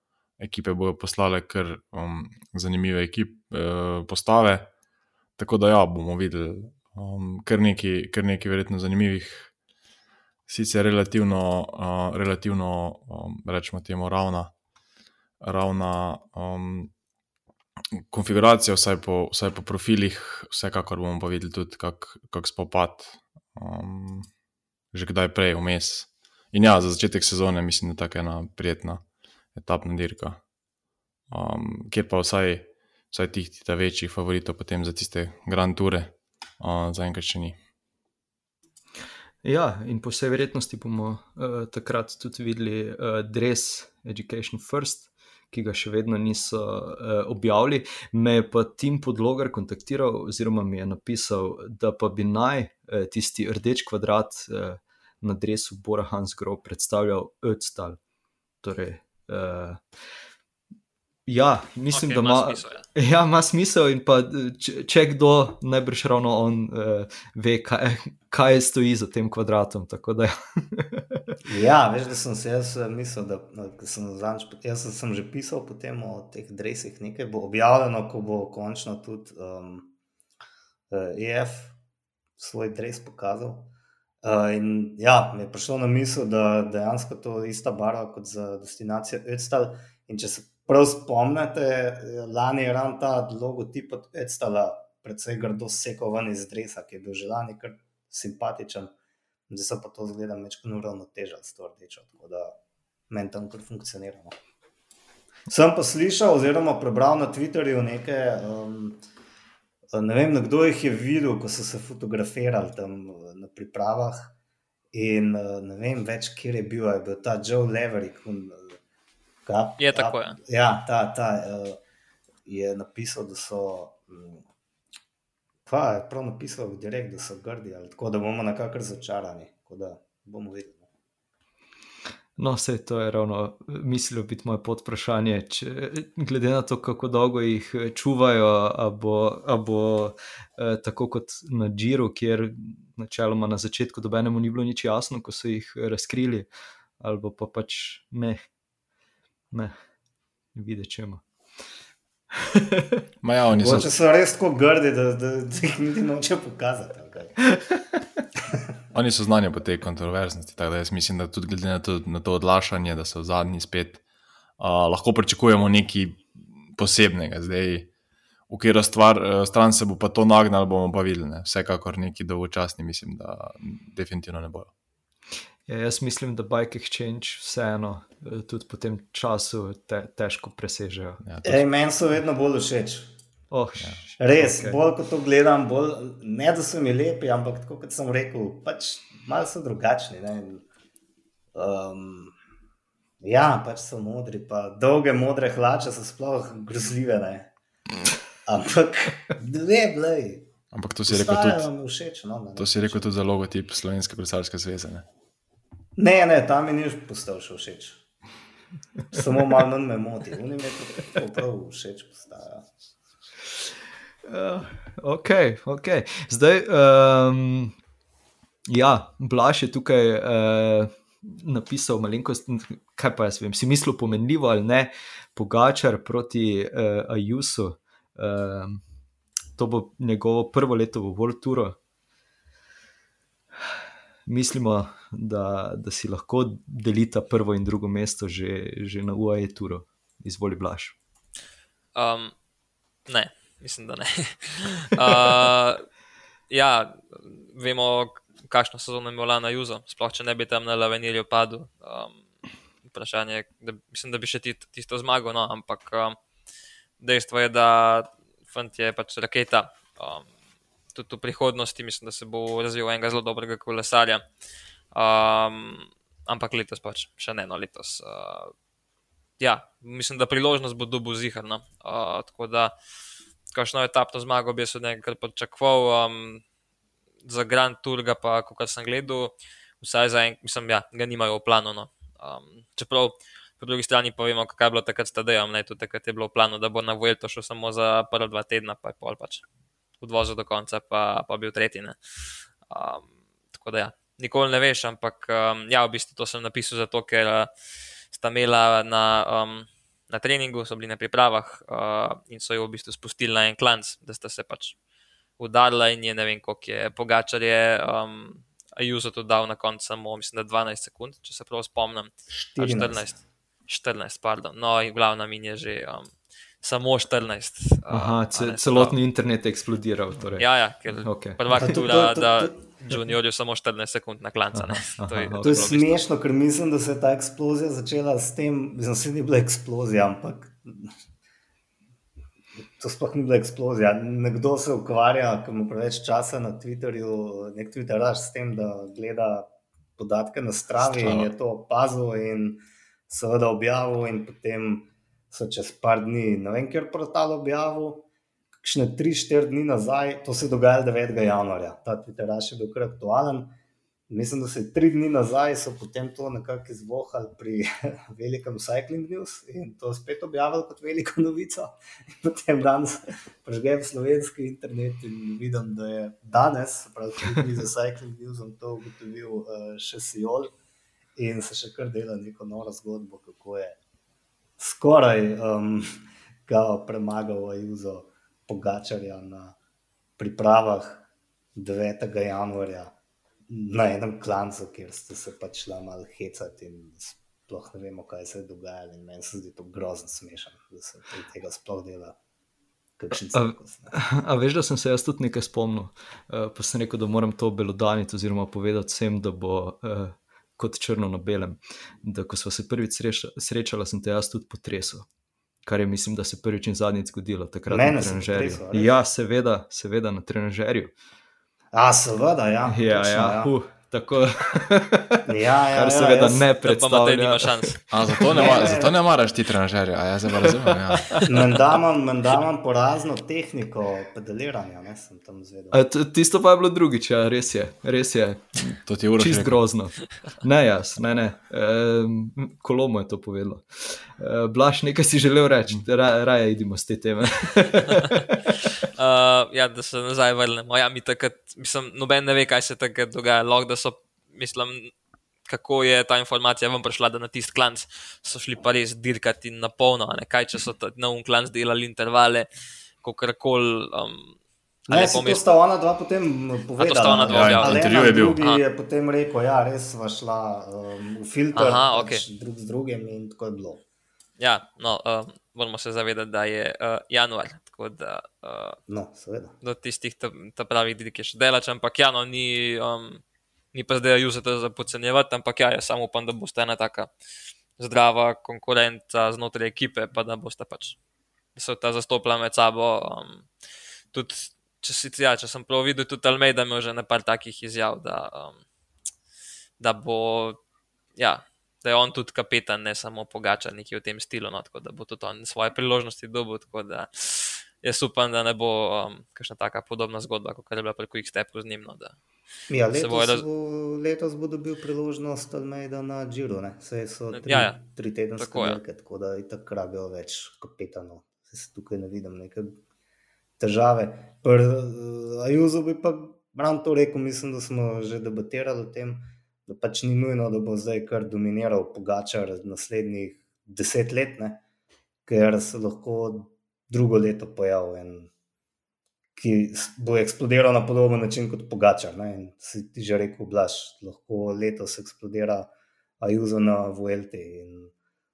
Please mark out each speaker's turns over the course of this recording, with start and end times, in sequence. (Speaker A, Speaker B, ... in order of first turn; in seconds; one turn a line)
Speaker A: 0.4-4.7
Speaker A: 5.4-9.5
Speaker A: 10.5-14.5
Speaker A: 15.4-16.9
Speaker A: 18.0-24.3
Speaker A: 24.9-30.4
Speaker A: 31.3-37.6
Speaker B: 39.4-58.0
Speaker B: 58.6-59.8
Speaker B: 61.3-71.3
Speaker C: 61.9-62.9
Speaker D: 71.5-79.9
Speaker D: 80.9-81.8
Speaker D: 82.4-98.9
Speaker D: 99.5-102.6
Speaker D: 103.1-104.3
Speaker D: 105.5-109.0
Speaker D: 109.9-114.3
Speaker D: 114.9-118.8
Speaker D: 119.5-121.8
Speaker C: 119.8-120.4
Speaker D: 122.5-124.4
Speaker D: 125.7-130.9
Speaker B: 132.4-146.5
Speaker B: 147.0-148.4
Speaker B: 150.5-151.2
Speaker B: 152.3-153.1
Speaker A: 153.2-153.9
Speaker D: 153.6-157.5
Speaker A: 158.9-164.0
Speaker A: 164.6-167.9
Speaker A: 168.5-174.7
Speaker B: 175.7-181.2
Speaker A: 181.2-181.7
Speaker D: 181.4-183.1
Speaker B: 183.5-184.8
Speaker D: 184.2-190.7
Speaker D: 191.5-192.3
Speaker D: 193.2-197.5
Speaker D: 198.5-200.5
Speaker A: 200.7-201.7
Speaker D: 201.1-203.1
Speaker A: 202.6-205.1
Speaker D: 206.0-208.0
Speaker D: 209.1-212.7
Speaker B: 214.2-217.8
Speaker B: 218.7-228.8
Speaker B: 229.6-231.8
Speaker B: 234.3-241.0
Speaker C: 241.9-242.3
Speaker C: 243.1-245.8
Speaker C: 246.5-252.2
Speaker C: 252.8-256.2
Speaker C: 257.0-260.3
Speaker C: 260.9-264.3
Speaker C: 264.9-268.5
Speaker C: 269.4-272.7
Speaker C: 273.5-276.4
Speaker C: 277.2-289.4
Speaker C: 290.0-297.5
Speaker C: 298.1-304.8
Speaker C: 305.4-319.0
Speaker D: 312.3-313.2
Speaker B: 317.9-320.5
Speaker C: 320.4-326.0
Speaker B: 321.0-321.4
Speaker D: 321.5-322.7
Speaker B: 324.5-325.7
Speaker D: 325.4-330.9
Speaker D: 332.8-348.1
Speaker A: 340.8-341.3
Speaker D: 348.6-353.6
Speaker D: 354.1-370.5
Speaker D: 371.2-373.8
Speaker D: 374.6-379.6
Speaker D: 380.2-382.9
Speaker D: 383.5-392.2
Speaker D: 393.0-393.9
Speaker B: 393.3-405.1
Speaker B: 405.6-410.9
Speaker D: 407.7-408.9
Speaker D: 411.7-413.5
Speaker B: 412.7-418.6
Speaker D: 415.3-416.5
Speaker C: 416.6-417.8
Speaker A: 417.9-421.5
Speaker D: 418.3-419.0
Speaker B: 420.4-421.2
Speaker D: 421.2-425.8
Speaker B: 425.7-438.3
Speaker A: 428.9-429.6
Speaker C: 438.9-444.9
Speaker C: 445.5-452.5
Speaker C: 453.0-455.4
Speaker D: 454.9-463.8
Speaker C: 456.8-458.6
Speaker A: 457.3-458.4
Speaker C: 461.5-462.2
Speaker C: 464.4-468.8
Speaker D: 468.9-469.6
Speaker C: 469.6-473.2
Speaker C: 473.7-477.1
Speaker C: 477.8-481.0
Speaker C: 481.6-483.5
Speaker C: 484.1-488.6
Speaker C: 489.8-490.6
Speaker C: 491.2-502.2
Speaker D: 502.7-512.8
Speaker C: 502.9-503.4
Speaker C: 507.3-507.8
Speaker C: 508.4-508.8
Speaker D: 513.6-524.6
Speaker D: 525.3-528.3
Speaker D: 529.4-535.7
Speaker D: 536.2-537.9